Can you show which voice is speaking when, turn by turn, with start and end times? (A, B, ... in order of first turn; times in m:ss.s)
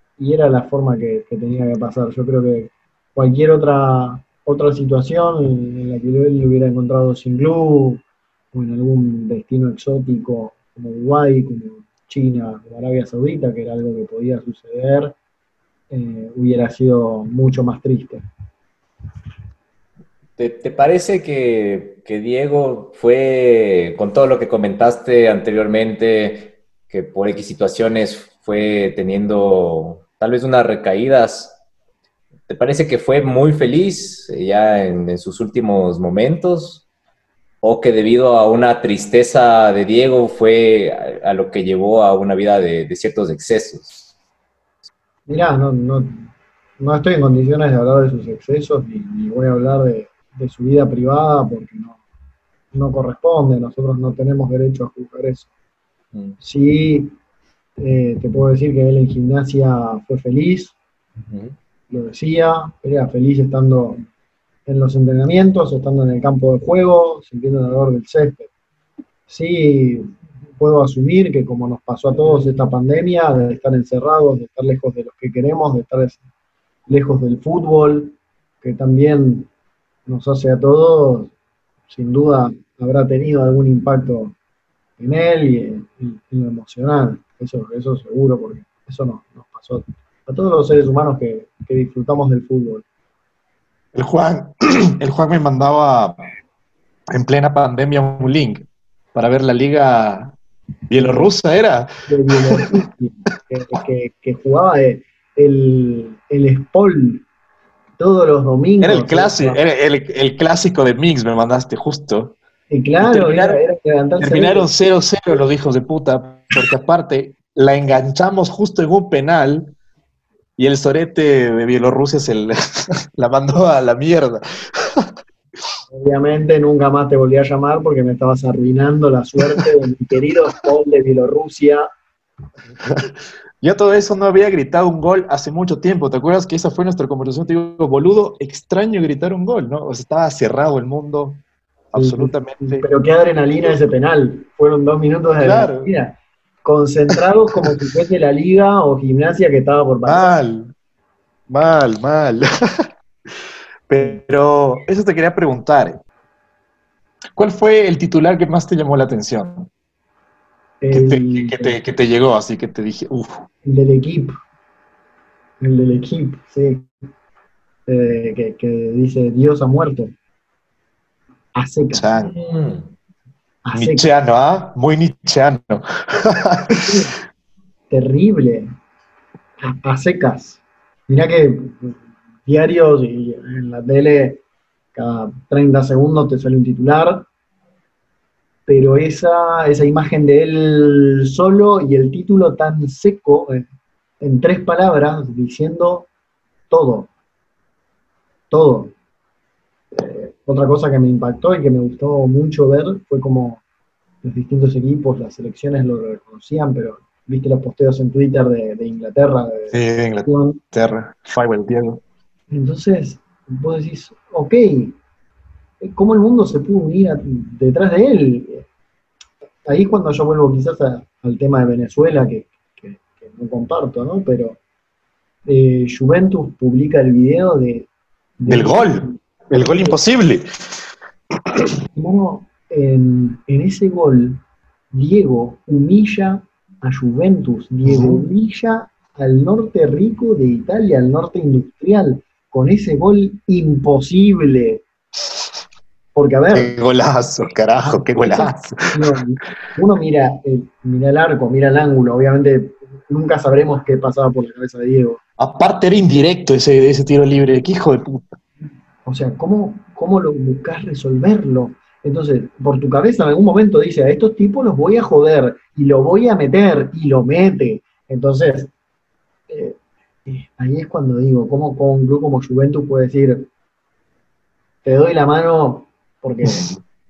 0:00.2-0:15.1 A
0:15.9-0:18.2 A
0:20.4-0:31.6 B
0:32.5-0:36.8 B
0:37.6-0:44.1 B
0:45.3-0:46.2 A
0:46.8-0:52.0 A
0:52.7-0:55.5 A
0:56.4-0:57.2 A
0:57.8-1:00.7 A
1:01.3-1:01.5 B
1:01.9-1:04.0 A
1:04.6-1:08.5 A
1:09.3-1:16.2 A
1:16.9-1:19.5 A
1:20.1-1:21.3 A
1:21.9-1:24.3 A
1:25.0-1:32.8 A
1:33.9-1:36.2 C
1:37.1-1:40.3 C
1:40.9-1:42.6 C
1:42.1-1:47.2 A
1:48.0-1:49.6 A
1:48.8-1:52.3 C
1:52.7-1:54.7 A
1:53.0-1:53.6 C
1:54.2-1:59.7 C
2:00.6-2:05.1 C
2:05.9-2:11.9 A
2:12.8-2:21.4 C
2:21.9-2:22.9 C
2:21.9-2:30.3 A
2:25.4-2:25.9 C
2:30.0-2:30.7 C
2:31.5-2:32.9 C
2:33.9-2:36.0 C
2:37.4-2:39.7 C
2:40.8-2:41.8 A
2:40.9-2:43.4 C
2:43.6-2:44.3 A
2:45.6-2:46.9 A
2:47.9-2:50.1 A
2:51.5-2:52.1 A
2:51.9-2:52.3 C
2:52.3-2:52.9 B
2:53.6-2:54.1 A
2:53.7-2:56.8 C
2:56.7-2:57.1 A
2:57.9-2:58.7 A
2:59.6-3:04.4 A
3:04.9-3:07.2 A
3:08.7-3:13.7 A
3:14.2-3:16.1 A
3:16.7-3:17.1 A
3:18.5-3:18.9 A
3:19.9-3:23.6 A
3:24.2-3:30.6 A
3:29.7-3:32.0 C
3:32.5-3:35.0 A
3:35.8-3:38.6 A
3:39.6-3:44.6 A
3:45.4-3:47.9 A
3:48.4-3:49.2 A
3:48.5-3:50.4 C
3:52.0-4:04.8 A
3:57.8-3:58.2 C
4:06.1-4:06.7 A
4:06.5-4:08.9 C
4:07.8-4:15.2 A
4:15.4-4:18.3 C
4:19.0-4:28.7 A
4:29.5-4:33.5 A
4:34.8-4:36.7 A